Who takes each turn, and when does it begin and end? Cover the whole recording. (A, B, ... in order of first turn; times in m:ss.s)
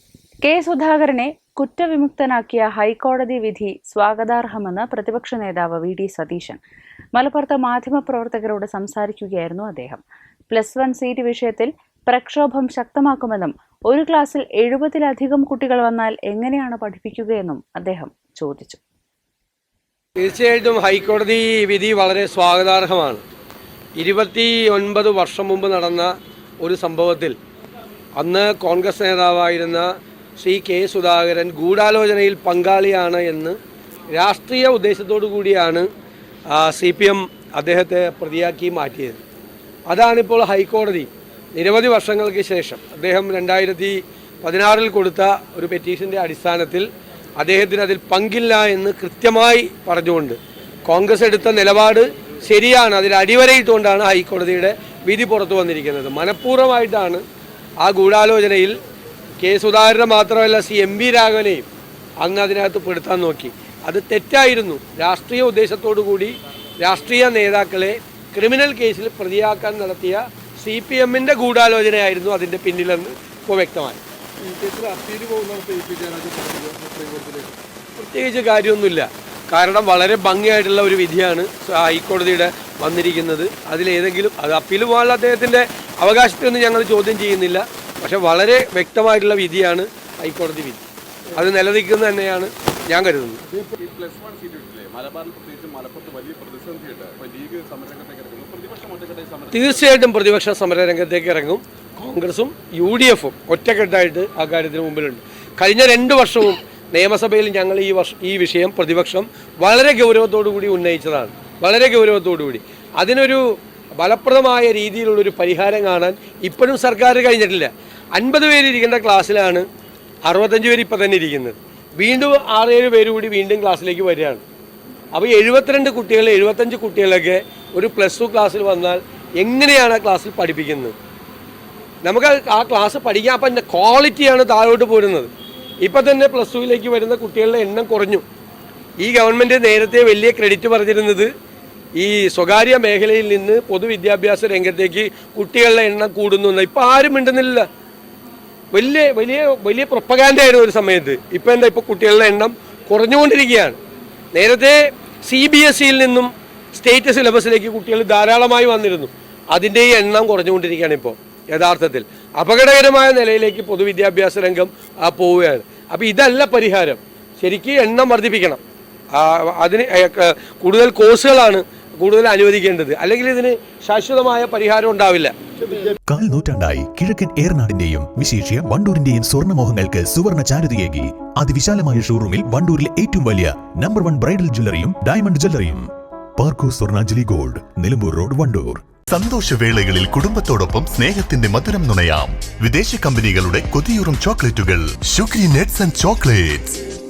0:00.4-0:06.6 A
0:07.1-0:18.8 A
0:20.2-0:23.2 B
0:24.0-0:27.4 B
0:28.2-0:33.6 B
0:34.1-0:35.8 B
0:36.5-0:39.2 B
0:39.9-0:57.2 B
0:57.8-0:58.8 B
0:59.4-1:01.7 B
1:02.2-1:14.0 B
1:14.4-1:17.5 C
1:18.0-1:33.6 B
1:33.7-1:39.8 C
1:39.5-1:53.4 B
1:54.0-1:59.6 B
2:00.2-2:04.4 B
2:05.1-2:10.9 B
2:12.0-2:15.3 B
2:15.8-2:18.2 B
2:19.0-2:21.3 B
2:22.0-2:27.6 B
2:28.7-2:33.8 B
2:34.3-2:48.6 B
2:49.1-2:55.3 B
2:56.1-3:08.9 D
3:09.1-3:16.8 E